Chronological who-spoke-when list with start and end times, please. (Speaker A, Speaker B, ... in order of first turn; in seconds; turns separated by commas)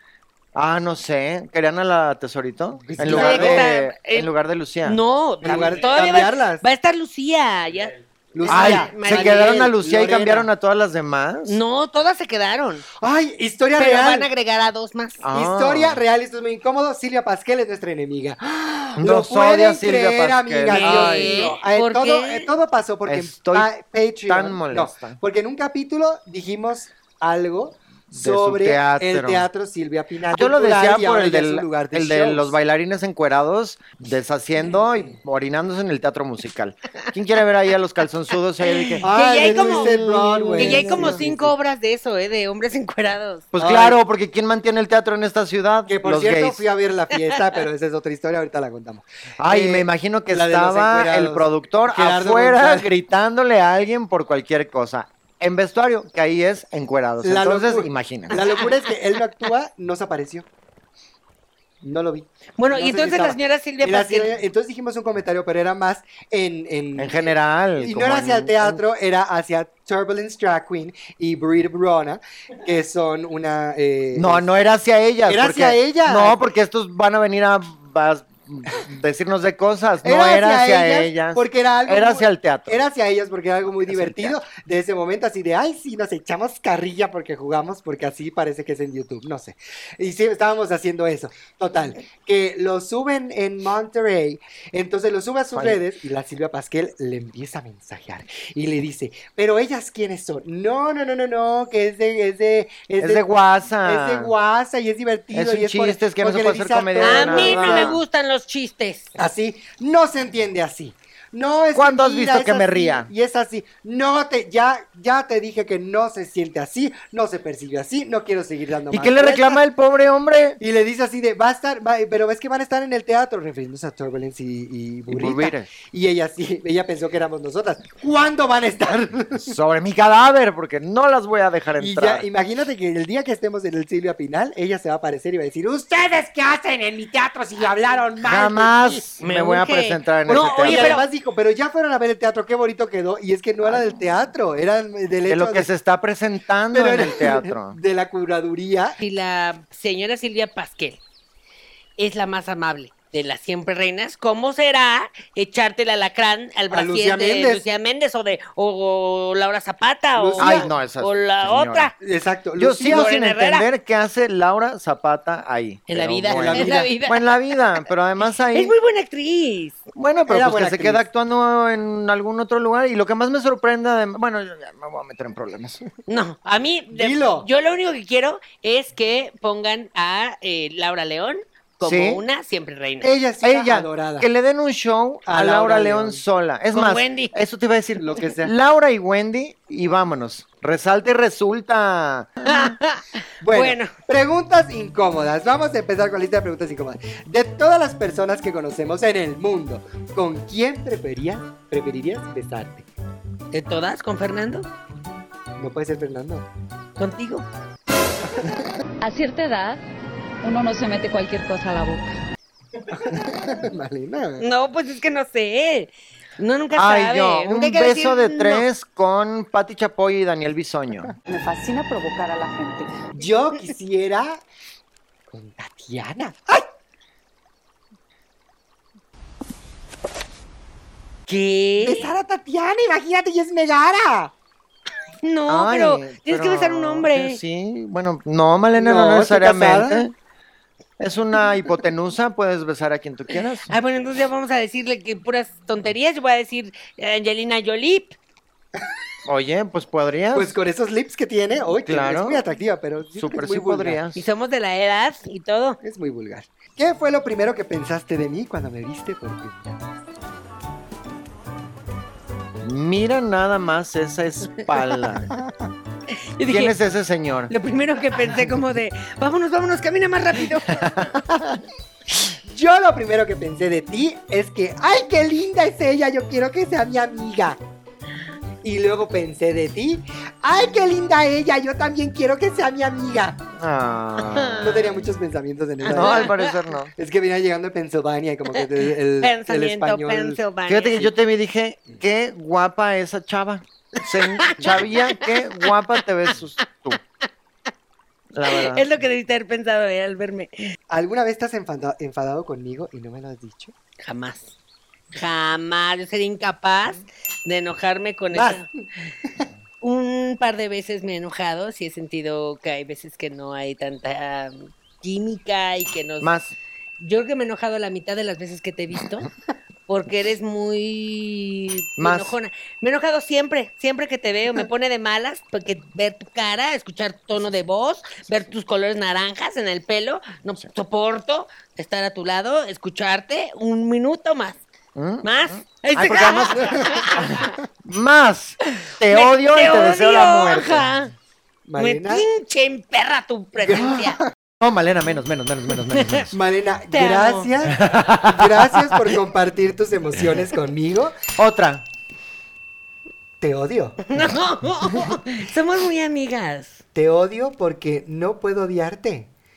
Speaker A: 0.5-5.0, Speaker B: 2.8-3.7, Speaker C: 3.0-4.3, Speaker C: 4.8-9.5, Speaker B: 5.4-6.6, Speaker B: 8.3-10.5, Speaker A: 8.5-11.6, Speaker C: 11.5-12.8, Speaker B: 13.0-14.3, Speaker C: 13.8-15.2, Speaker A: 15.2-16.0, Speaker B: 15.3-32.6, Speaker A: 19.0-21.5, Speaker C: 20.7-22.5, Speaker A: 23.1-23.7, Speaker A: 24.3-25.2, Speaker A: 28.1-29.5, Speaker A: 30.3-41.2, Speaker C: 38.6-43.5, Speaker B: 39.0-41.5, Speaker A: 43.5-46.6, Speaker B: 43.6-44.0, Speaker B: 45.9-52.9, Speaker A: 49.4-58.4, Speaker B: 57.2-60.5, Speaker C: 58.3-58.6, Speaker B: 61.8-74.5, Speaker C: 62.6-64.3, Speaker A: 67.0-68.8, Speaker A: 74.1-82.8, Speaker B: 75.3-76.4, Speaker B: 80.0-103.3, Speaker A: 83.8-84.4, Speaker A: 103.0-104.3, Speaker B: 103.8-108.0, Speaker A: 105.3-108.0, Speaker C: 107.0-109.1, Speaker B: 109.2-119.6, Speaker A: 111.7-113.1, Speaker A: 118.9-120.6, Speaker B: 120.6-129.5, Speaker A: 125.1-125.7, Speaker A: 129.4-132.2, Speaker B: 131.8-139.0, Speaker A: 138.2-141.0, Speaker C: 139.2-141.0, Speaker B: 140.3-145.7, Speaker A: 145.3-147.8, Speaker B: 146.7-149.0, Speaker C: 149.0-151.0, Speaker C: 152.0-161.9, Speaker B: 156.7-157.6, Speaker B: 160.2-160.7, Speaker A: 160.4-161.9, Speaker B: 162.0-163.1, Speaker A: 162.6-168.7, Speaker C: 162.9-163.7, Speaker C: 165.9-167.4, Speaker B: 166.3-166.9, Speaker C: 168.5-169.8, Speaker A: 169.9-175.8, Speaker B: 170.3-171.0, Speaker C: 176.1-183.1, Speaker B: 176.9-177.5, Speaker A: 181.8-182.2, Speaker B: 183.0-184.3, Speaker A: 183.4-192.5, Speaker B: 185.3-186.2, Speaker C: 186.7-187.3, Speaker B: 188.0-188.5, Speaker C: 192.4-193.9, Speaker B: 193.4-202.8, Speaker C: 203.5-204.7, Speaker B: 205.6-206.4, Speaker C: 207.0-207.5, Speaker D: 209.0-209.8, Speaker D: 210.4-212.0, Speaker B: 212.9-214.4, Speaker C: 214.4-218.7, Speaker A: 216.7-221.1, Speaker D: 221.3-223.0, Speaker B: 223.1-224.4, Speaker B: 225.3-226.7, Speaker C: 231.3-232.1, Speaker B: 231.8-234.3, Speaker C: 235.2-237.4, Speaker A: 235.5-240.1, Speaker B: 238.7-240.1, Speaker A: 241.0-243.7, Speaker C: 243.7-248.1, Speaker A: 249.2-250.5, Speaker B: 250.3-254.0, Speaker A: 251.8-252.4, Speaker A: 253.2-254.2, Speaker C: 254.1-255.8, Speaker B: 255.8-259.8, Speaker A: 262.6-265.3, Speaker C: 264.6-265.0, Speaker B: 265.3-265.7, Speaker C: 266.4-266.7, Speaker A: 266.4-267.5, Speaker C: 267.5-271.0, Speaker A: 270.7-271.2, Speaker B: 272.5-277.6, Speaker B: 278.6-283.4, Speaker A: 283.6-284.9, Speaker C: 284.2-284.7, Speaker B: 284.6-286.3, Speaker C: 285.9-286.5, Speaker A: 285.9-286.9, Speaker B: 287.0-290.4, Speaker C: 289.2-291.1, Speaker A: 290.7-297.0, Speaker C: 294.2-295.7, Speaker A: 298.3-298.9, Speaker C: 298.5-300.5, Speaker B: 300.9-303.7, Speaker C: 304.1-304.5, Speaker C: 305.1-308.7, Speaker B: 308.3-308.7, Speaker C: 309.8-316.3, Speaker A: 316.2-316.5, Speaker C: 317.0-319.3, Speaker C: 319.9-334.6, Speaker A: 322.0-322.4, Speaker A: 334.9-340.9, Speaker C: 335.2-337.5, Speaker C: 338.8-341.1, Speaker B: 341.6-342.2, Speaker C: 341.8-344.2, Speaker B: 343.6-344.3, Speaker A: 344.6-346.4, Speaker B: 346.3-351.1, Speaker C: 346.9-347.5, Speaker A: 347.7-349.1, Speaker A: 351.4-351.9, Speaker B: 353.4-354.0, Speaker C: 354.1-356.8, Speaker B: 354.8-355.1, Speaker B: 356.9-359.3